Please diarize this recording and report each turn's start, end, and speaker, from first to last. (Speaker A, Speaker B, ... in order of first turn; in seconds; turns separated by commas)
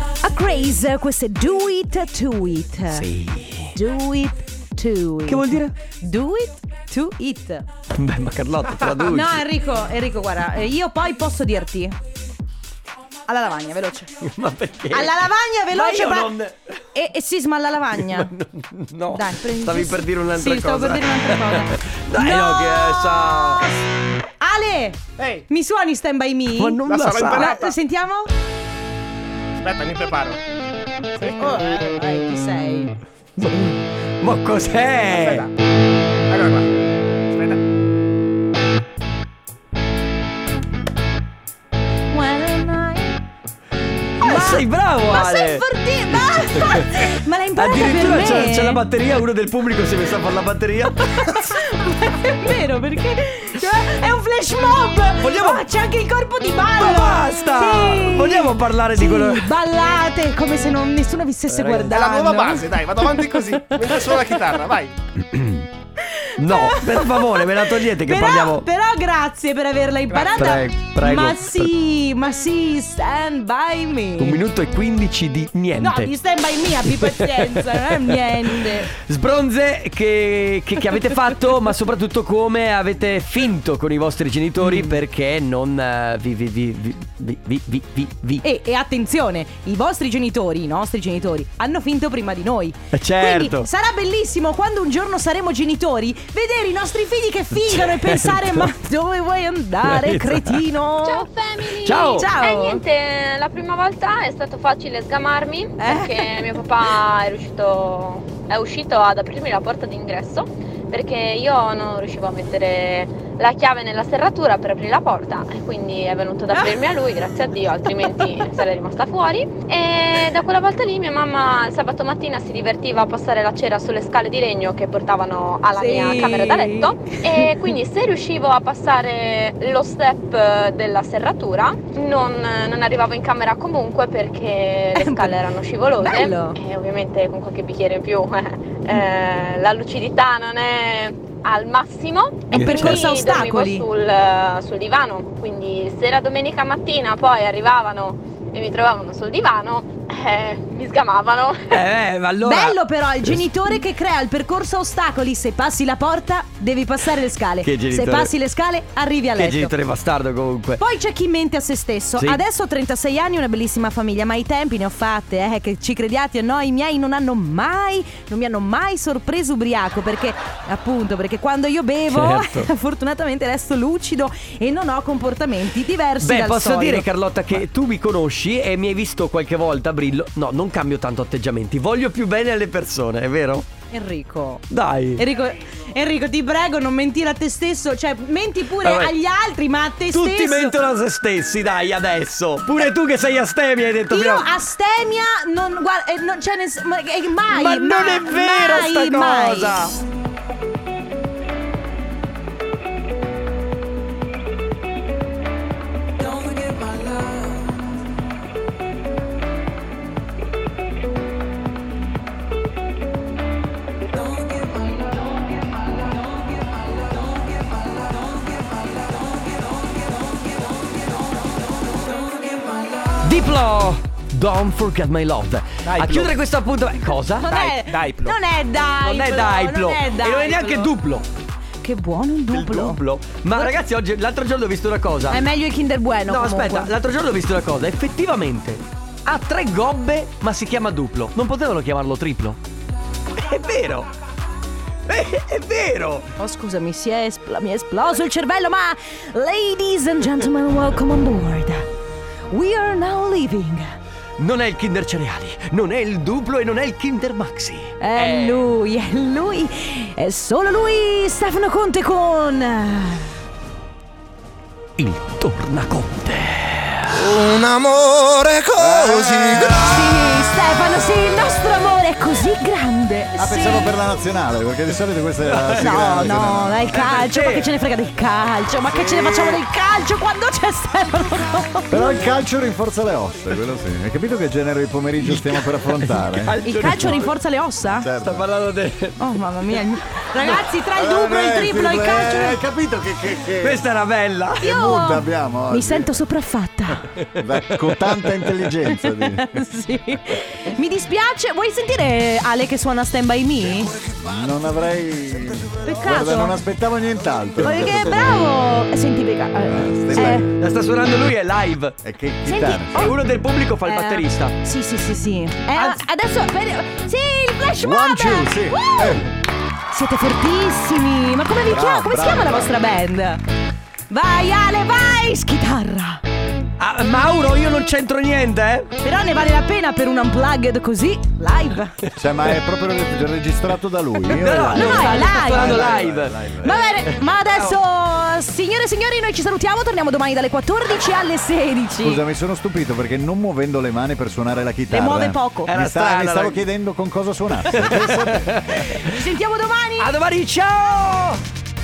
Speaker A: 0.2-3.1, Speaker B: 2.9-3.8, Speaker A: 3.7-7.7, Speaker B: 5.3-5.8, Speaker B: 7.9-9.5, Speaker A: 8.9-11.9, Speaker A: 13.3-14.1, Speaker B: 14.2-16.8, Speaker A: 14.9-16.4, Speaker A: 16.9-18.3, Speaker B: 17.9-23.7, Speaker A: 19.1-23.9, Speaker A: 24.4-28.3, Speaker C: 25.2-25.4, Speaker B: 26.6-27.6, Speaker C: 26.8-27.8, Speaker C: 29.6-30.4, Speaker A: 31.2-32.9, Speaker C: 31.2-31.6, Speaker B: 33.4-35.5, Speaker C: 35.1-35.5, Speaker C: 36.3-36.7, Speaker C: 37.3-37.6, Speaker A: 42.1-43.2, Speaker A: 44.2-48.8, Speaker B: 44.2-45.6, Speaker B: 46.2-51.4, Speaker A: 51.2-62.7, Speaker B: 55.2-55.6, Speaker B: 56.7-59.5, Speaker C: 61.5-65.0, Speaker B: 61.5-61.9, Speaker A: 63.7-64.2, Speaker B: 65.2-65.7, Speaker A: 66.0-74.4, Speaker B: 66.4-68.7, Speaker C: 70.1-70.5, Speaker B: 70.3-71.7, Speaker B: 74.2-76.1, Speaker A: 75.8-78.9, Speaker B: 76.8-88.4, Speaker A: 84.6-85.0, Speaker A: 88.4-102.8, Speaker B: 92.9-93.7, Speaker B: 97.6-98.7, Speaker B: 99.8-100.7, Speaker D: 101.2-151.8, Speaker B: 101.7-102.4, Speaker A: 105.8-106.5, Speaker A: 117.9-118.5, Speaker A: 125.8-127.5, Speaker A: 134.9-135.4, Speaker A: 136.0-136.6, Speaker A: 142.5-143.8, Speaker B: 142.5-143.1, Speaker B: 151.7-153.4, Speaker A: 152.4-159.7, Speaker B: 157.6-158.3, Speaker B: 159.4-160.8, Speaker A: 160.8-177.1, Speaker B: 172.1-172.7, Speaker B: 176.2-183.7, Speaker A: 183.9-190.8, Speaker B: 184.7-185.2, Speaker B: 188.8-189.1, Speaker B: 190.1-194.5, Speaker A: 194.1-199.9, Speaker B: 197.5-200.0, Speaker B: 223.2-227.6, Speaker C: 225.8-226.4, Speaker A: 227.4-230.9, Speaker C: 227.5-228.4, Speaker B: 229.0-231.3, Speaker A: 231.8-233.0, Speaker B: 232.5-235.5, Speaker A: 235.3-236.9, Speaker B: 236.3-242.6, Speaker B: 243.3-244.1, Speaker B: 245.1-246.3, Speaker A: 246.4-251.8, Speaker A: 252.5-253.9, Speaker B: 254.4-258.7, Speaker A: 258.0-263.3, Speaker B: 265.0-267.4, Speaker E: 267.5-268.1, Speaker E: 268.6-270.2, Speaker A: 269.6-273.9, Speaker E: 273.4-276.9, Speaker B: 275.4-276.1, Speaker A: 275.8-282.1, Speaker B: 276.9-277.7, Speaker E: 279.0-279.6, Speaker E: 281.9-286.6, Speaker B: 285.2-287.3, Speaker A: 286.6-288.1, Speaker E: 288.0-288.5, Speaker B: 288.2-289.7, Speaker A: 289.2-292.6, Speaker E: 290.9-293.8, Speaker B: 293.6-294.7, Speaker A: 294.6-297.1, Speaker E: 294.6-296.2, Speaker B: 297.1-298.5, Speaker E: 297.4-299.6, Speaker A: 298.9-303.9, Speaker E: 303.9-308.5, Speaker A: 305.8-306.6, Speaker A: 307.6-310.5, Speaker E: 309.7-310.6, Speaker B: 310.6-312.0, Speaker E: 312.0-313.1, Speaker A: 312.4-313.2, Speaker B: 312.9-314.6, Speaker A: 313.9-319.3, Speaker B: 315.8-316.0, Speaker E: 317.8-319.3, Speaker A: 319.9-323.4, Speaker E: 321.6-322.8, Speaker A: 324.1-326.2, Speaker B: 326.8-328.9, Speaker A: 329.0-332.0, Speaker E: 332.2-336.8, Speaker B: 334.3-337.8, Speaker A: 334.7-336.1, Speaker A: 336.6-342.2, Speaker E: 342.0-348.5, Speaker A: 344.9-345.7, Speaker B: 345.7-346.6, Speaker B: 347.7-349.2, Speaker A: 347.8-350.1, Speaker B: 350.0-351.4